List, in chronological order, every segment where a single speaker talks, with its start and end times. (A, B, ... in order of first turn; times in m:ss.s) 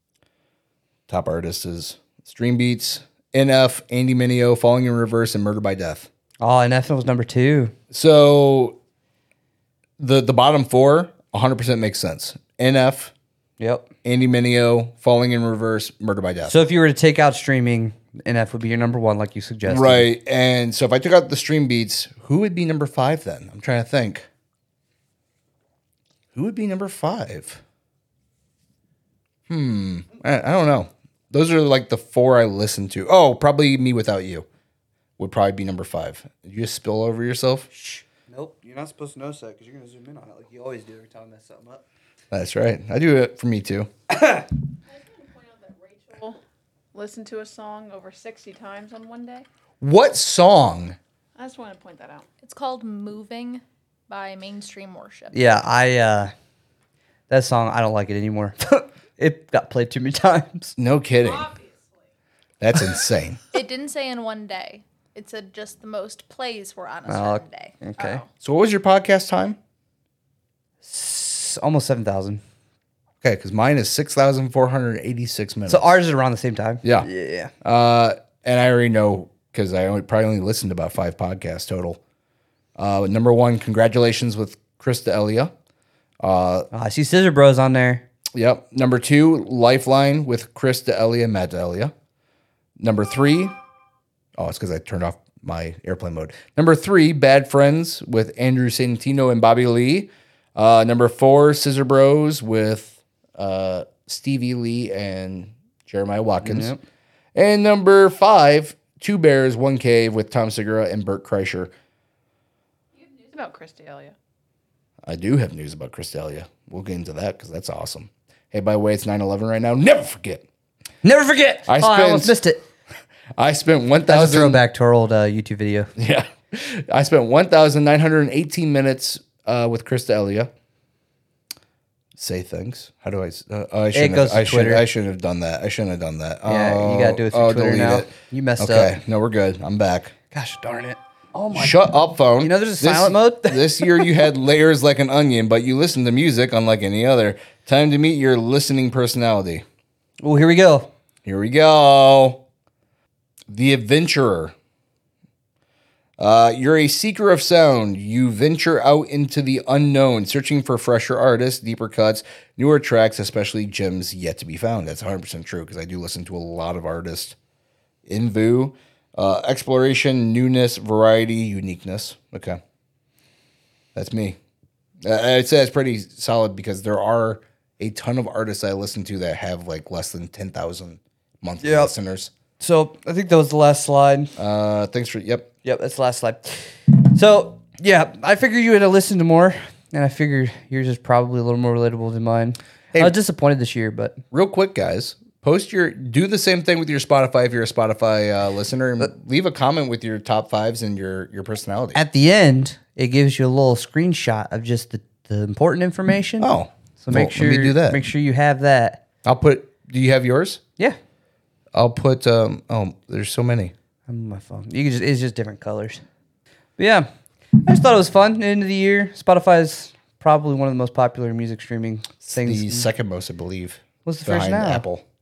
0:01.1-0:06.1 A
0:06.4-0:07.7 B
0:07.9-0:08.8 A
0:10.0-0:13.1 A
0:13.6-0:13.9 B
0:14.0-0:16.6 A
0:16.5-0:20.1 B
0:19.6-0:24.3 A
0:26.4-0:27.6 A
0:29.5-0:34.4 A
0:35.2-0:37.7 A
0:37.7-0:41.8 B
0:42.3-0:43.9 A
0:44.1-0:44.4 B
0:44.9-0:46.4 C
0:46.9-0:49.4 C
0:49.8-0:51.0 A
0:51.4-0:52.3 C
0:52.4-0:55.4 D
0:55.3-0:56.3 B
0:57.3-1:00.8 B
1:00.8-1:01.5 A
1:01.2-1:02.0 C
1:02.6-1:03.4 A
1:03.5-1:07.7 D
1:07.1-1:08.2 B
1:08.0-1:08.2 C
1:08.4-1:09.6 A
1:10.8-1:12.4 B
1:13.2-1:16.0 A
1:15.7-1:17.5 B
1:16.8-1:17.1 A
1:17.6-1:22.0 A
1:22.8-1:25.5 A
1:26.2-1:26.7 A
1:26.7-1:28.0 B
1:28.4-1:31.9 A
1:32.8-1:33.6 A
1:34.4-1:46.7 A
1:46.4-1:46.8 B
1:47.4-1:51.7 A
1:53.0-1:54.2 C
1:55.0-2:00.4 A
2:01.0-2:02.6 B
2:01.7-2:02.4 A
2:03.4-2:04.6 A
2:04.1-2:05.9 B
2:06.0-2:10.5 A
2:12.2-2:20.1 A
2:13.9-2:14.8 B
2:16.5-2:19.0 B
2:20.3-2:24.3 B
2:21.5-2:29.6 A
2:30.2-2:30.9 B
2:31.2-2:32.4 A
2:33.5-2:34.5 A
2:36.2-2:47.4 A
2:48.1-2:52.6 A
2:54.0-2:54.4 A
2:55.0-3:02.3 A
3:01.6-3:01.9 B
3:02.6-3:04.3 B
3:04.4-3:05.5 A
3:05.6-3:14.2 B
3:14.3-3:22.0 A
3:21.9-3:26.5 B
3:26.4-3:28.0 A
3:27.0-3:29.0 B
3:29.2-3:30.6 A
3:31.7-3:33.7 A
3:34.1-3:36.0 B
3:36.8-3:37.1 B
3:37.6-3:42.9 B
3:42.2-3:45.0 A
3:44.0-3:44.8 B